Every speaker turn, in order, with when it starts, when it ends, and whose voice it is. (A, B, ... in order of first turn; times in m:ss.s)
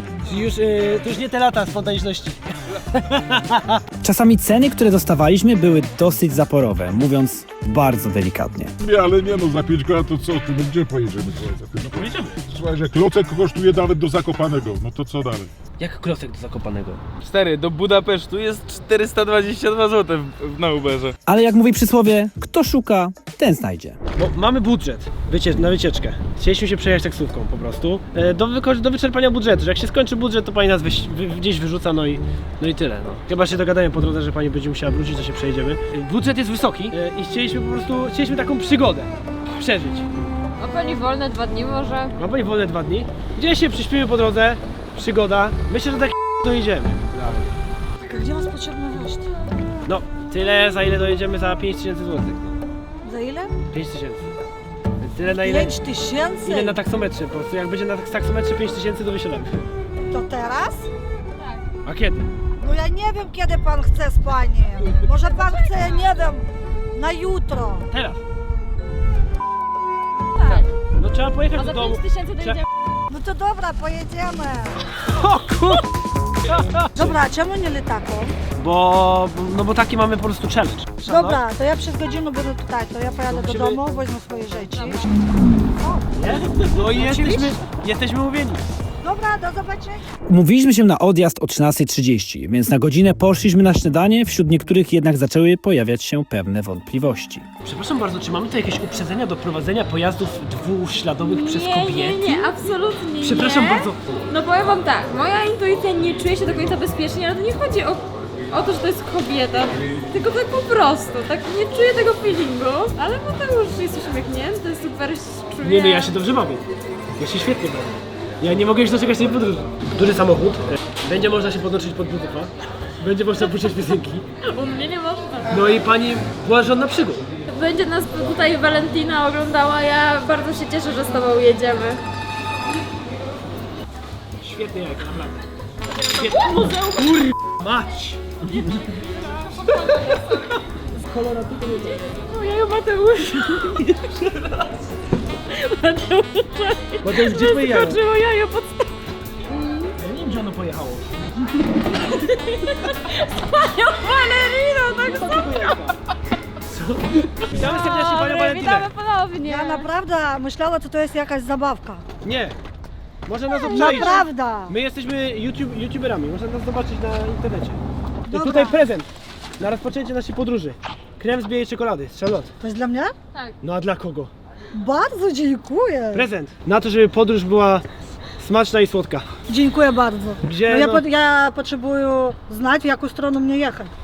0:00.2-0:03.8 A
0:04.0-0:08.7 B
0:08.8-0:15.5 C
0:11.8-0:12.4 A
0:15.8-0:17.0 A
0:17.2-0:21.1 D
0:21.2-0:24.0 B
0:24.2-0:40.1 A
0:40.6-0:42.1 E
0:42.2-0:47.2 A
0:48.0-0:49.2 F
0:49.9-0:52.6 A
0:53.0-0:53.6 F
0:53.7-0:54.3 A
0:55.0-0:55.8 A
0:55.3-0:56.8 F
0:56.4-0:59.6 A
1:00.1-1:00.9 F
1:01.4-1:01.6 E
1:01.8-1:02.3 A
1:02.6-1:07.9 F
1:05.3-1:06.1 E
1:07.9-1:08.2 A
1:10.3-1:10.7 E
1:11.0-1:12.6 A
1:11.6-1:12.7 E
1:13.1-1:14.8 F
1:15.0-1:15.8 A
1:16.4-1:17.1 A
1:16.9-1:18.4 F
1:18.6-1:21.4 A
1:21.1-1:27.6 F
1:23.3-1:24.0 A
1:24.7-1:25.1 E
1:26.2-1:28.6 A
1:29.0-1:30.0 F
1:30.3-1:37.5 B
1:37.6-1:42.5 A
1:41.2-1:56.1 E
1:43.2-1:44.0 A
1:55.6-1:56.6 A
1:57.2-2:04.3 A
2:04.4-2:05.6 E
2:05.5-2:07.2 A
2:07.5-2:12.0 E
2:14.4-2:15.4 A
2:15.8-2:17.2 E
2:16.1-2:19.0 A
2:18.6-2:20.4 E
2:19.7-2:22.0 A
2:21.8-2:24.1 E
2:23.5-2:23.9 A
2:25.5-2:28.9 E
2:27.0-2:28.0 A
2:29.5-2:29.9 E
2:30.0-2:31.1 A
2:32.0-2:35.8 E
2:34.9-2:35.9 A
2:36.6-2:38.9 A
2:37.5-2:39.9 E
2:39.4-2:42.0 F
2:42.2-2:42.6 A
2:43.2-2:49.1 A
2:43.5-2:44.3 E
2:43.7-2:44.7 F
2:48.3-2:48.8 F
2:49.6-2:52.5 A
2:52.6-2:53.1 F
2:53.6-2:54.3 A
2:54.7-2:56.3 F
2:56.1-2:57.9 A
2:58.4-2:59.2 A
2:59.5-3:03.9 F
3:00.4-3:01.0 A